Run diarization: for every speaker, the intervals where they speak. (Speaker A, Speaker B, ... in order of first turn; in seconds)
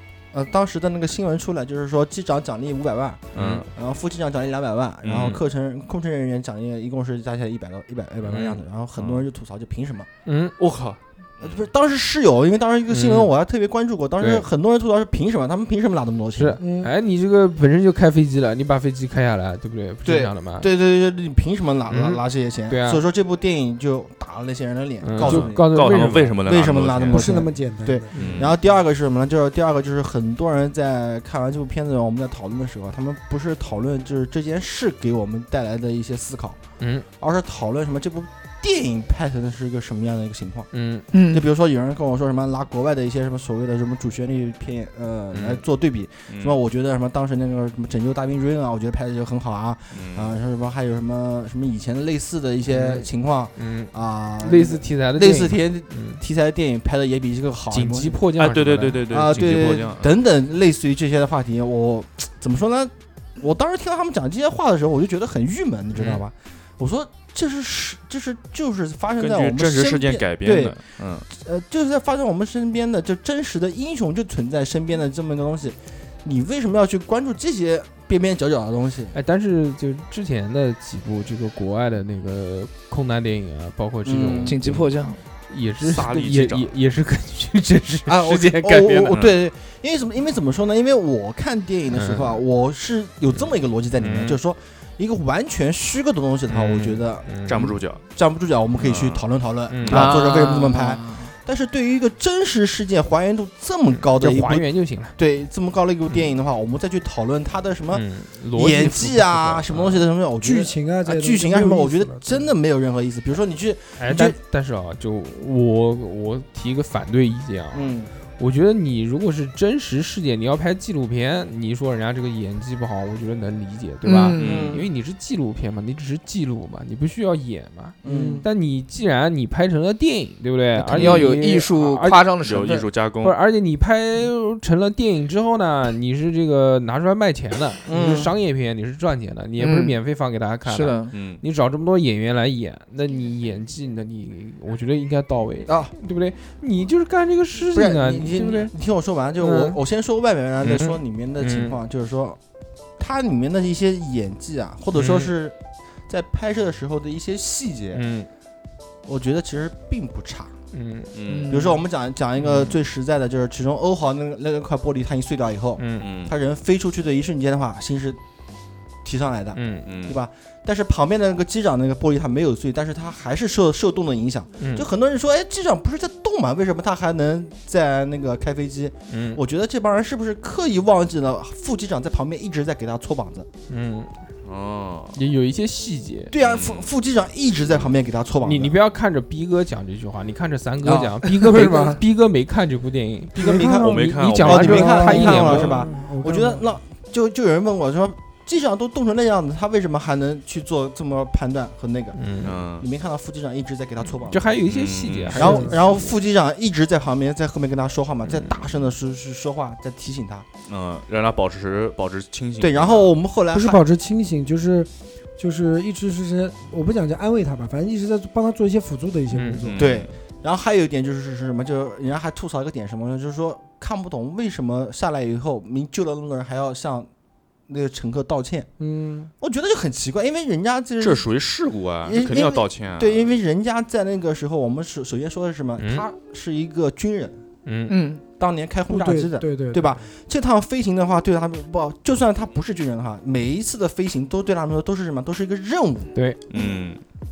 Speaker A: 0.3-10.1, 11.4-16.6, 20.0-36.6, 37.2-40.7, 41.3-58.2, 59.1-79.1, 84.0-84.6, 88.1-97.3, 98.1-114.3, 117.7-118.1, 124.4-124.8, 128.0-128.4, 137.8-138.3, 145.7-145.9, 147.7-152.4, 153.0-155.5, 156.1-158.0, 159.1-160.5, 161.5-168.2, 169.0-183.5, 186.3-188.8, 190.8-192.0, 193.3-204.5, 205.3-210.5, 212.6-213.8, 219.8-227.1, 227.7-228.7, 229.4-231.3, 232.0-237.4, 238.3-246.7
Speaker B: 3.3-3.7, 5.0-5.4, 8.9-9.2, 10.6-11.7, 25.2-27.3, 28.1-28.6, 46.3-46.6, 49.9-50.3, 58.4-60.2, 69.2-71.3, 85.8-86.7, 97.5-98.0, 98.8-99.2, 124.4-124.8, 131.0-131.2, 132.4-133.3, 141.1-141.4, 161.1-161.6, 166.0-166.3, 169.8-170.2, 184.4-185.2, 186.4-186.9, 193.8-195.6, 202.4-202.9, 204.7-205.4, 210.7-213.1, 219.7-220.1, 231.0-233.3, 246.5-247.0
Speaker C: 3.4-3.6, 8.2-8.6, 10.2-10.5, 12.9-13.3, 14.2-14.4, 16.3-20.7, 21.9-23.0, 25.0-26.4, 28.1-28.5, 36.8-37.1, 40.7-41.1, 52.7-56.2, 57.7-59.7, 79.1-84.9, 85.5-89.2, 91.9-92.4, 94.0-94.4, 96.5-97.7, 99.7-100.1, 103.9-105.2, 107.9-110.0, 114.0-132.2, 133.2-148.7, 149.4-149.8, 150.6-151.8, 155.0-155.2, 157.9-158.3, 160.7-161.1, 165.8-166.1, 169.5-169.8, 174.6-174.9, 179.1-179.4, 183.7-184.1, 185.1-186.3, 188.4-195.8, 202.1-202.5, 204.3-206.1, 208.3-208.5, 219.3-219.7, 235.8-236.0, 237.7-238.0, 246.1-246.4
Speaker D: 16.6-16.9, 27.1-28.1, 110.4-112.5, 128.0-128.5, 191.4-192.0, 193.3-196.7, 205.3-205.8, 213.5-219.9, 228.8-229.3, 238.9-240.1
Speaker E: 41.1-41.5, 84.4-85.2, 99.9-101.3, 124.0-124.7, 130.8-132.9, 139.6-139.9, 140.7-141.1, 161.3-161.8, 237.9-238.2